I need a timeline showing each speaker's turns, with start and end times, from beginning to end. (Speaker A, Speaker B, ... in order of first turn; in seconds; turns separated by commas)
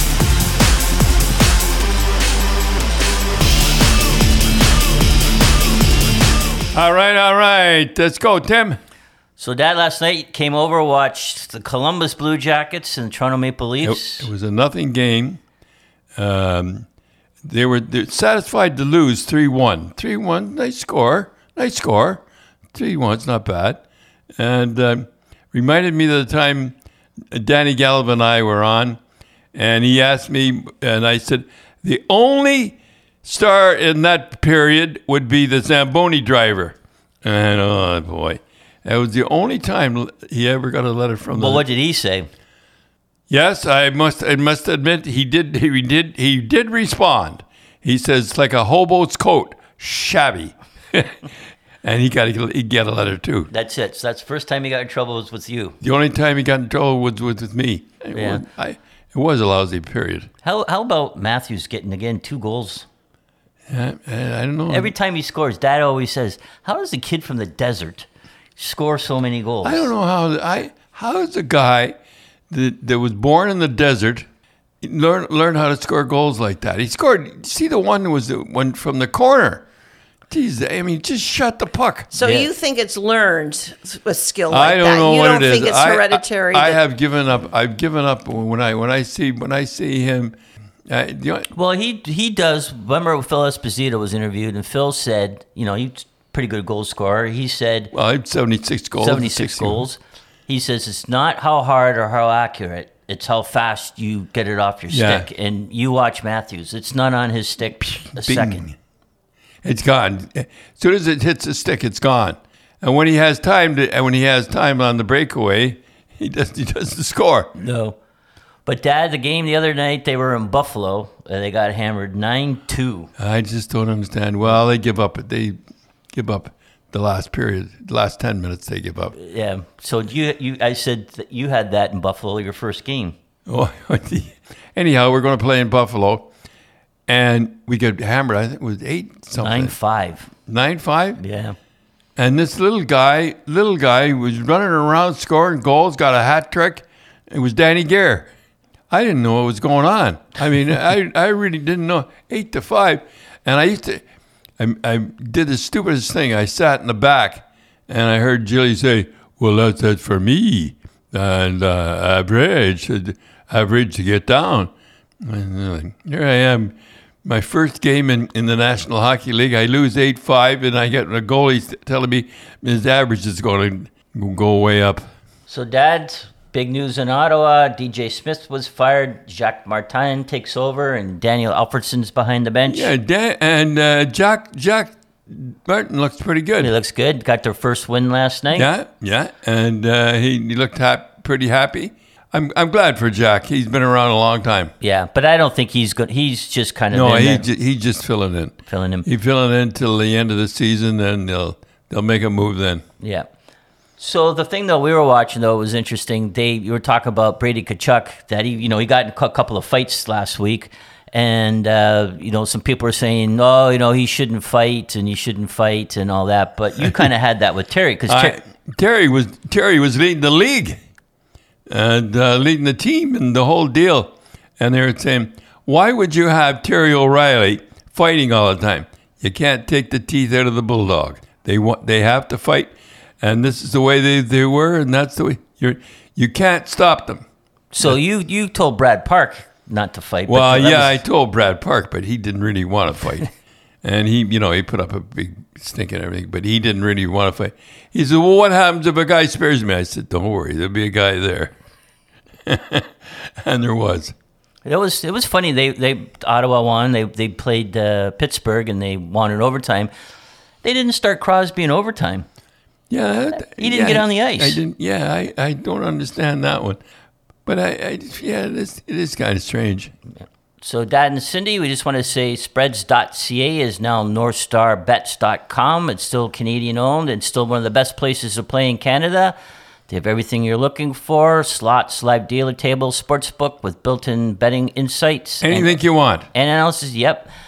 Speaker A: 6.7-8.8, Speaker B: 9.4-14.3, Speaker A: 13.8-15.4, Speaker A: 16.2-16.9, Speaker A: 17.4-22.2, Speaker A: 22.7-23.8, Speaker A: 24.4-26.8, Speaker A: 27.3-29.0, Speaker A: 29.6-41.7, Speaker B: 41.3-42.3, Speaker A: 43.3-51.2, Speaker A: 51.8-53.5, Speaker B: 53.5-55.8, Speaker A: 55.8-60.3, Speaker B: 58.1-58.5, Speaker B: 60.4-62.9, Speaker A: 63.7-64.9, Speaker B: 64.7-69.9, Speaker A: 69.6-72.0, Speaker A: 72.5-74.2, Speaker A: 74.8-79.6, Speaker A: 80.3-82.1, Speaker C: 82.1-86.8, Speaker B: 82.2-82.5, Speaker A: 84.5-90.3, Speaker A: 90.9-91.5, Speaker B: 91.5-97.9, Speaker A: 97.9-99.9, Speaker B: 99.0-108.7, Speaker A: 104.9-105.3, Speaker A: 108.2-108.7, Speaker A: 109.6-117.5, Speaker B: 117.6-118.0, Speaker B: 118.7-123.1, Speaker A: 123.2-125.6, Speaker A: 126.1-129.2, Speaker B: 129.2-133.2, Speaker A: 133.5-136.3, Speaker A: 137.1-139.8, Speaker B: 139.4-140.3, Speaker A: 140.5-141.2, Speaker B: 141.2-141.6, Speaker A: 142.2-148.3, Speaker A: 148.9-154.0, Speaker A: 154.6-164.7, Speaker A: 165.2-175.1, Speaker B: 175.5-182.9, Speaker A: 182.7-186.7, Speaker B: 186.6-188.7, Speaker A: 188.5-194.7, Speaker B: 194.8-197.5, Speaker A: 196.9-202.8, Speaker B: 198.7-199.1, Speaker B: 203.0-203.3, Speaker B: 204.0-218.4, Speaker A: 218.1-220.8, Speaker A: 221.7-237.2, Speaker B: 237.7-241.0, Speaker A: 240.3-243.3, Speaker A: 243.8-251.5, Speaker A: 252.5-252.9, Speaker A: 253.4-254.1, Speaker B: 254.7-259.9, Speaker B: 260.6-262.3, Speaker A: 262.9-266.8, Speaker B: 263.3-264.6, Speaker A: 267.5-269.9, Speaker B: 270.6-279.4, Speaker B: 279.9-285.8, Speaker A: 285.4-286.3, Speaker B: 286.3-287.3